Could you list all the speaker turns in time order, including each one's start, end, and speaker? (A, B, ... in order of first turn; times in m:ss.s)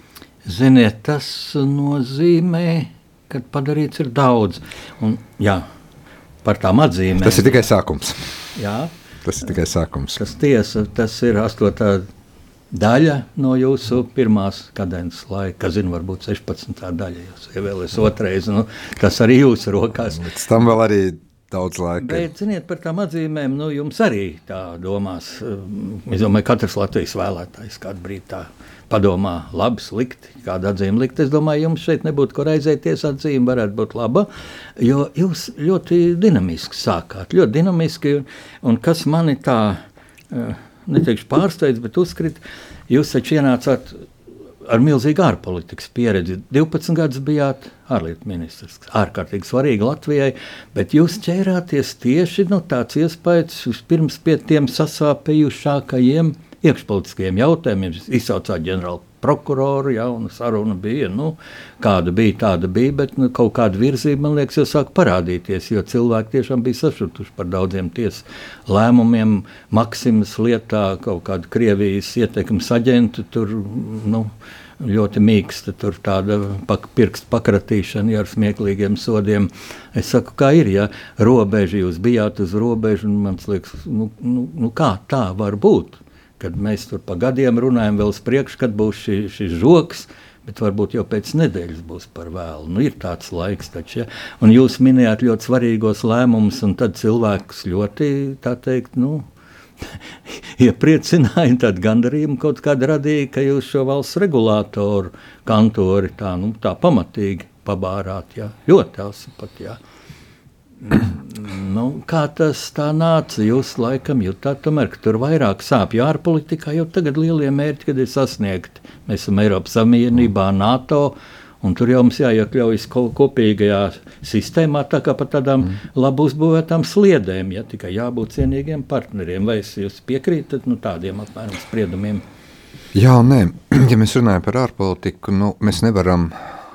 0:00.4-0:05.6 A
0:06.4-0:07.6 A
0:07.2-0:08.2 B
0:08.5-0:08.9 A
0:09.2-0:10.2 B
0:10.2-0:12.1 A
0:12.7-0:20.2 A
0:20.1-0:22.3 B
0:22.0-0:39.8 A
0:40.3-0:44.0 A
0:44.6-1:39.3 A
1:40.3-1:49.8 A
1:50.8-2:12.2 A
2:12.9-2:16.5 B